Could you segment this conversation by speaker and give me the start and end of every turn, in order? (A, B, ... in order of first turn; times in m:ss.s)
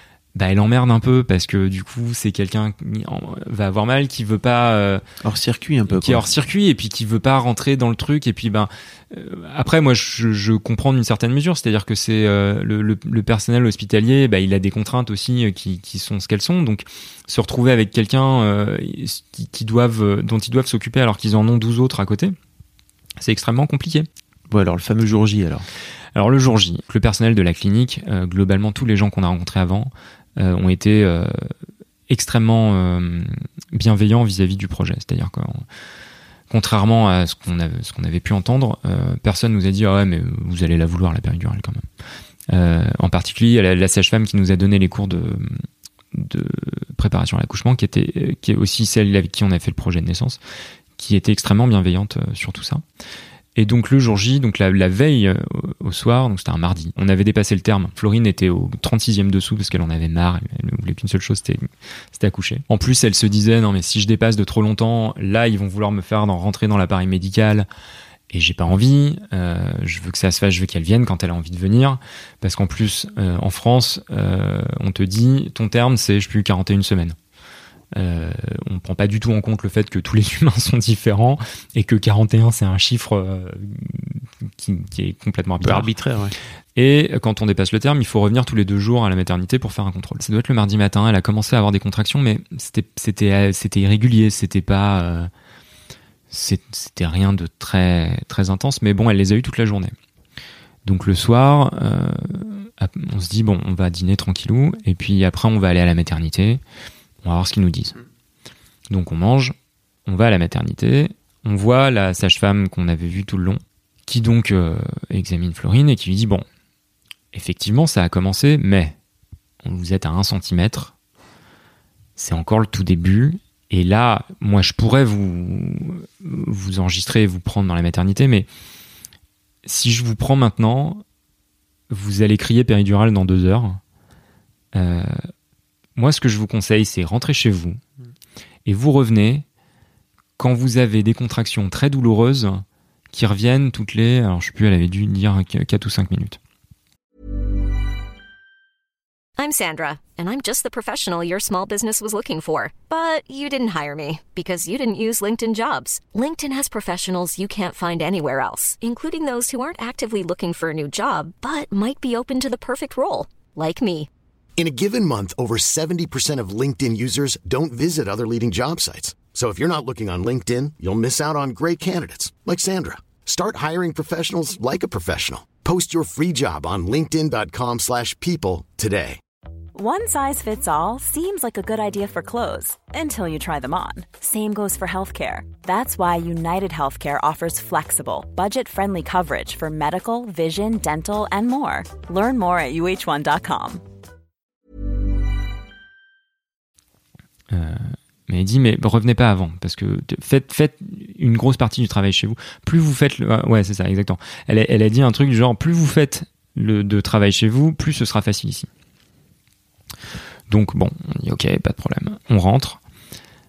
0:00.4-0:05.0 A
0:05.2-0:06.3 B
0:05.9-0:22.4 A
0:23.2-0:24.1 A
0:24.5-0:25.7 B
0:26.2-0:31.5 A
0:32.1-0:35.6 A
0:36.5-0:41.9 A
0:42.5-0:45.6 A
0:46.1-0:50.4 A
0:51.0-0:52.8 A
0:53.6-1:07.7 A
1:08.3-1:17.2 A
1:18.0-1:25.9 A
1:25.6-1:26.4 B
1:26.8-1:35.3 A
1:36.3-1:40.0 A
1:40.8-1:46.6 A
1:47.2-1:48.0 A
1:48.9-1:49.6 A
1:50.1-1:56.4 A
1:57.3-1:59.0 A
1:59.6-2:00.9 A
2:02.2-2:08.5 A
2:09.6-2:11.0 A
2:11.9-2:13.8 A
2:14.7-2:15.3 A
2:16.0-2:17.8 A
2:18.7-2:19.4 A
2:20.4-2:26.4 A
2:29.4-2:44.1 C
2:44.6-2:59.2 D
2:59.7-3:13.8 E
3:17.5-3:28.7 A
3:30.5-3:32.8 A